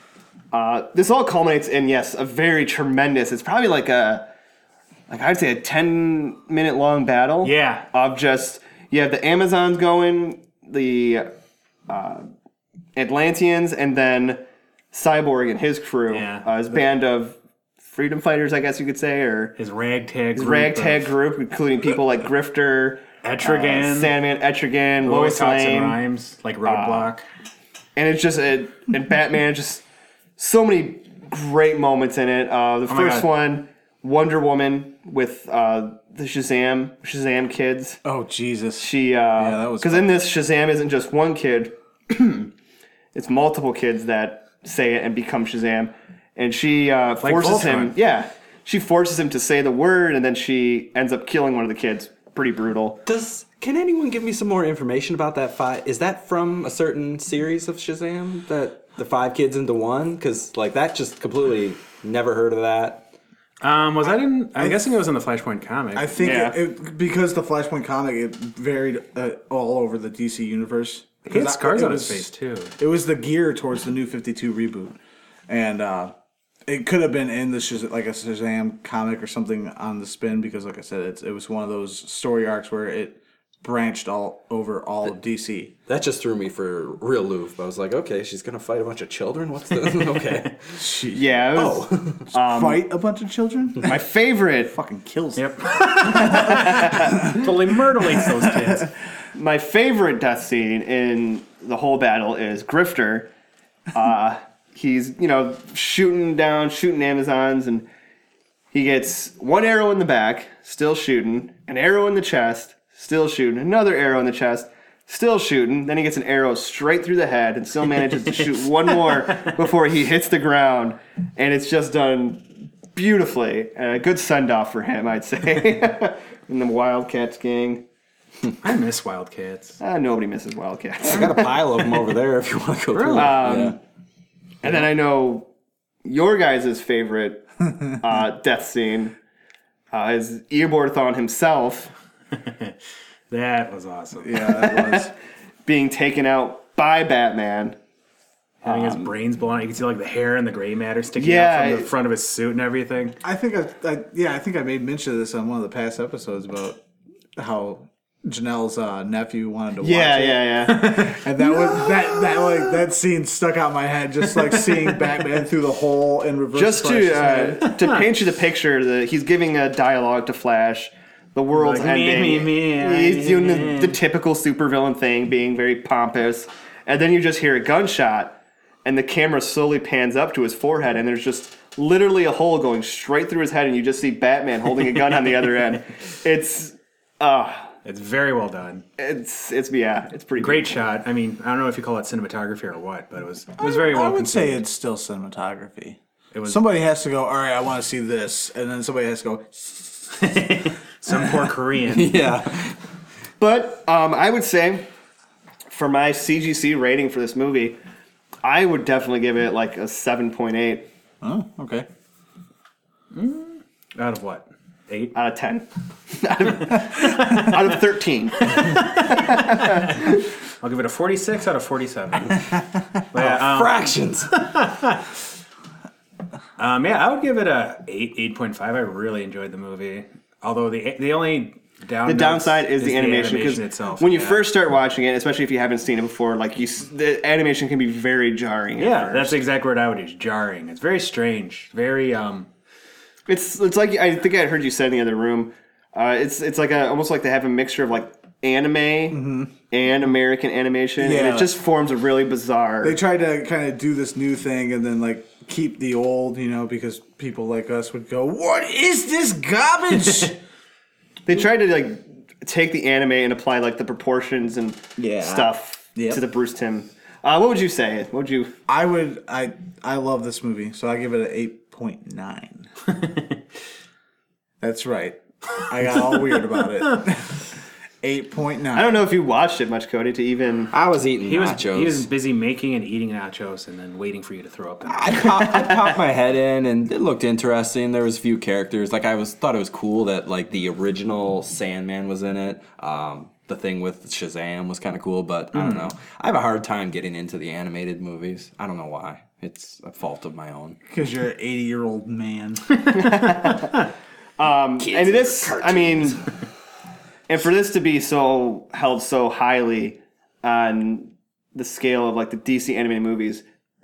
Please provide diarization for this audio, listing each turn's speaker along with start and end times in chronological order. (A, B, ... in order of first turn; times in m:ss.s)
0:00.5-0:04.3 A
0:05.1-0:11.3 A
0:07.4-0:07.9 B
0:11.9-0:12.3 A
0:13.0-0:14.4 A
0:14.9-0:17.4 A
0:16.1-0:16.5 B
0:17.9-0:19.6 A
0:19.6-0:21.1 B
0:20.4-0:26.0 A
0:23.2-0:24.1 B
0:25.0-0:27.2 B
0:26.6-0:27.1 A
0:28.0-0:29.8 A
0:30.4-0:38.0 A
0:32.9-0:33.3 B
0:38.0-0:40.2 C
0:38.8-0:42.5 A
0:43.1-0:53.0 A
0:47.2-0:47.9 B
0:53.1-1:03.1 D
1:03.6-1:06.5 B
1:06.0-1:12.3 C
1:06.2-1:06.6 A
1:11.3-1:12.7 B
1:12.8-1:15.0 C
1:15.5-1:16.1 C
1:16.7-1:25.7 C
1:25.9-1:30.8 D
1:30.8-1:31.2 C
1:31.1-1:32.8 A
1:31.6-1:32.3 D
1:32.3-1:34.0 C
1:33.8-1:34.7 A
1:34.7-1:35.4 C
1:35.4-1:38.9 B
1:36.0-1:37.4 C
1:36.2-1:37.2 A
1:38.0-1:38.8 C
1:39.4-1:43.3 A
1:43.9-1:47.9 A
1:48.7-2:07.8 A
1:58.2-1:59.5 B
2:08.6-2:09.8 B
2:09.8-2:11.9 A
2:11.0-2:13.8 D
2:12.9-2:13.6 B
2:13.1-2:13.8 A
2:14.6-2:15.5 A
2:16.0-2:17.5 A
2:18.0-2:19.2 A
2:19.9-2:21.9 A
2:22.4-2:22.8 B
2:23.3-2:24.8 B
2:24.2-2:25.1 C
2:25.7-2:27.8 A
2:28.6-2:33.2 B
2:28.6-2:29.1 A
2:31.2-2:31.9 A
2:33.2-2:36.8 C
2:37.4-2:47.7 C
2:39.8-2:41.1 A
2:40.7-2:41.2 B
2:46.5-3:07.7 A
2:47.7-2:48.0 B
2:51.5-2:54.0 B
3:07.8-3:08.8 B
3:09.0-3:10.8 A
3:10.4-3:14.6 B
3:13.6-3:20.2 C
3:16.3-3:16.6 B
3:20.1-3:22.3 B
3:21.9-3:22.8 D
3:23.4-3:24.9 A
3:25.7-3:27.8 A
3:28.4-3:30.9 A
3:31.2-3:31.9 C
3:33.1-3:35.2 B
3:35.2-3:40.2 A
3:36.8-3:37.6 B
3:38.5-3:42.6 B
3:43.1-3:45.1 B
3:43.1-3:44.3 D
3:46.6-3:54.5 B
3:52.1-3:59.4 A
3:58.8-4:02.5 B
4:03.3-4:13.0 A
4:09.1-4:09.5 C
4:11.0-4:11.5 C
4:12.8-4:20.4 C
4:21.3-4:28.5 A
4:25.0-4:25.3 C
4:25.0-4:25.5 D
4:26.0-4:26.2 C
4:28.7-4:32.7 C
4:32.9-4:33.4 B
4:34.6-4:37.5 C
4:38.0-4:39.0 C
4:38.7-4:40.7 A
4:40.7-4:42.1 D
4:41.2-4:45.7 B
4:44.9-5:00.8 D
4:55.5-4:55.9 B
5:00.9-5:02.7 C
5:02.9-5:03.8 A
5:04.4-5:06.2 A
5:04.8-5:06.3 D
5:07.3-5:13.4 A